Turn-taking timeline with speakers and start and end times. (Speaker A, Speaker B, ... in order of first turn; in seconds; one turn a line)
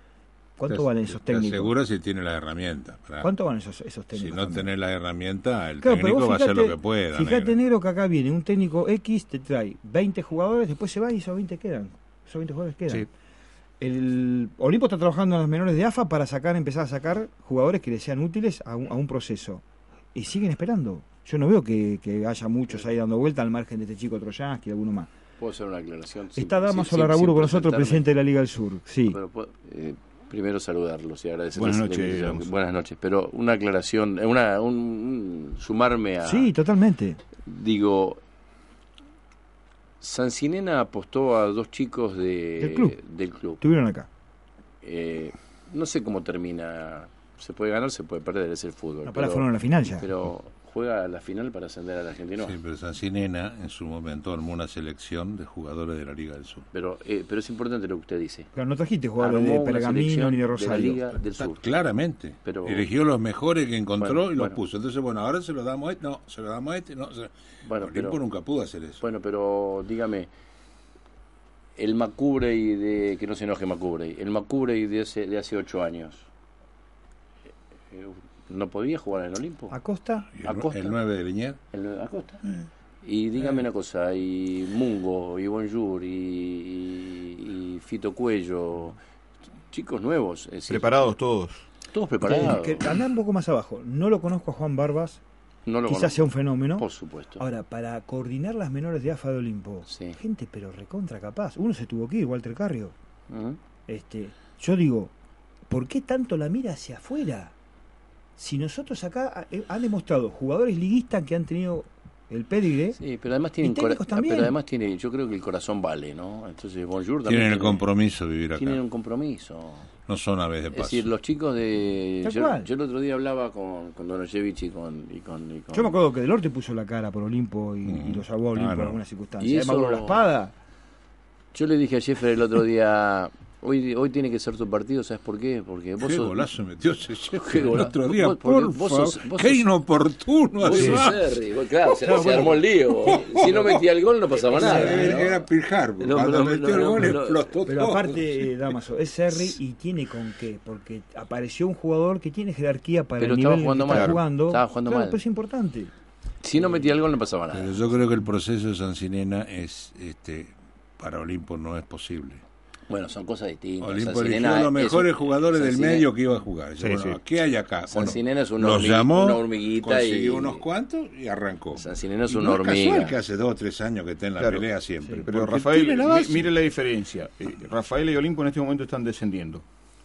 Speaker A: 0.6-1.7
Speaker B: 0.7-3.3
Speaker A: 3.2-4.7
Speaker B: 4.1-7.6
Speaker A: 5.8-13.1
Speaker A: 13.8-19.6
Speaker A: 20.1-25.1
Speaker C: 25.4-28.1
Speaker A: 26.4-29.2
Speaker C: 29.1-36.5
Speaker D: 31.5-32.5
Speaker A: 36.2-37.2
Speaker C: 37.4-38.2
Speaker C: 40.0-43.6
Speaker A: 42.6-43.0
Speaker A: 43.6-44.1
Speaker C: 44.8-52.5
Speaker A: 49.1-50.1
Speaker B: 52.4-56.7
Speaker C: 56.7-58.5
Speaker A: 58.5-61.0
Speaker C: 59.2-61.6
Speaker B: 61.4-69.0
Speaker C: 62.4-62.8
Speaker C: 64.0-64.6
Speaker C: 67.6-68.2
Speaker C: 69.0-70.3
Speaker C: 71.8-76.2
Speaker C: 77.9-79.8
Speaker A: 79.7-80.3
Speaker B: 80.3-81.6
Speaker C: 80.4-81.0
Speaker C: 81.7-82.4
Speaker C: 83.0-89.0
Speaker C: 89.7-91.0
Speaker D: 90.7-91.6
Speaker C: 91.9-92.8
Speaker A: 92.2-95.2
Speaker C: 95.7-97.4
Speaker A: 95.9-96.8
Speaker A: 97.4-102.9
Speaker C: 99.9-100.2
Speaker C: 103.3-103.6
Speaker A: 103.9-105.1
Speaker A: 105.7-107.5
Speaker A: 108.4-113.0
Speaker C: 113.0-117.8
Speaker A: 113.6-114.5
Speaker B: 117.2-118.8
Speaker C: 118.5-119.9
Speaker B: 120.1-121.1
Speaker C: 120.7-125.9
Speaker A: 122.2-122.7
Speaker A: 125.7-130.5
Speaker B: 127.8-129.0
Speaker C: 129.4-130.2
Speaker C: 131.5-136.5
Speaker B: 136.0-141.4
Speaker C: 137.4-139.7
Speaker C: 140.6-145.4
Speaker A: 142.0-142.6
Speaker B: 143.0-143.8
Speaker B: 144.5-148.7
Speaker A: 144.5-145.2
Speaker C: 146.0-147.5
Speaker A: 147.7-155.9
Speaker C: 153.2-155.2
Speaker D: 153.9-154.2
Speaker C: 156.4-157.9
Speaker B: 157.5-162.4
Speaker C: 162.9-166.1
Speaker B: 163.8-176.5
Speaker D: 166.8-167.2
Speaker C: 167.9-170.6
Speaker C: 171.8-173.1
Speaker D: 174.4-174.6
Speaker D: 175.2-179.6